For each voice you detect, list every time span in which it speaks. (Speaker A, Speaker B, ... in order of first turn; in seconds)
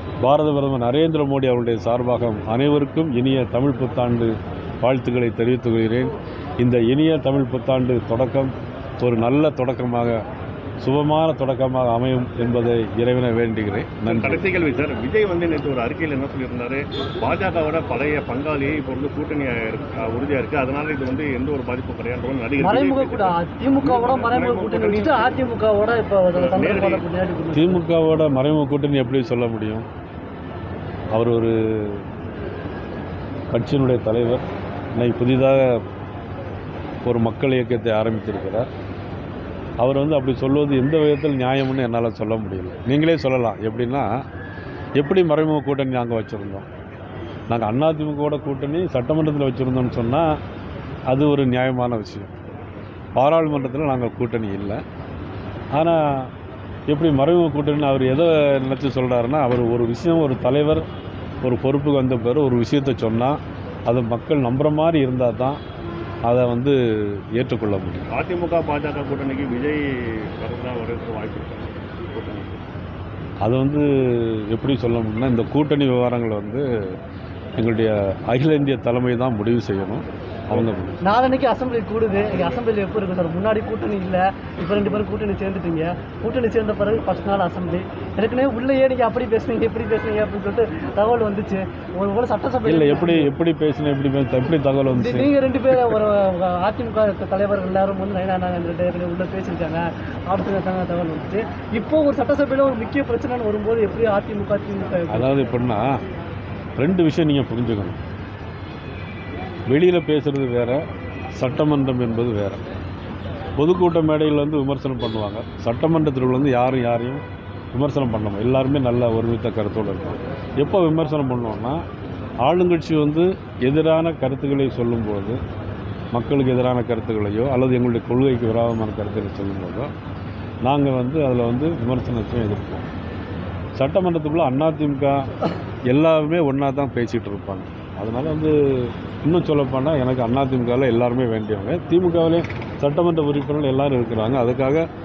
Speaker A: 0.2-10.2, 10.8-14.5, 27.5-29.9, 31.1-32.0, 33.5-34.5, 35.0-35.8, 37.0-38.7, 39.8-44.1, 45.0-46.7, 47.5-50.4, 51.1-52.4, 53.2-54.8, 55.8-56.3, 56.9-60.8, 61.4-65.6, 66.3-68.1, 73.4-77.0, 77.6-81.0, 92.7-95.3, 105.1-105.9, 106.8-108.0, 109.7-110.8, 111.4-112.6, 113.6-117.2, 117.7-121.8, 122.4-125.4, 126.1-129.9, 130.7-132.9, 133.8-135.3, 135.9-144.8
Speaker B: 14.1-25.4, 26.4-27.0, 68.1-72.6
Speaker C: 22.6-27.9, 81.0-93.3, 94.9-105.5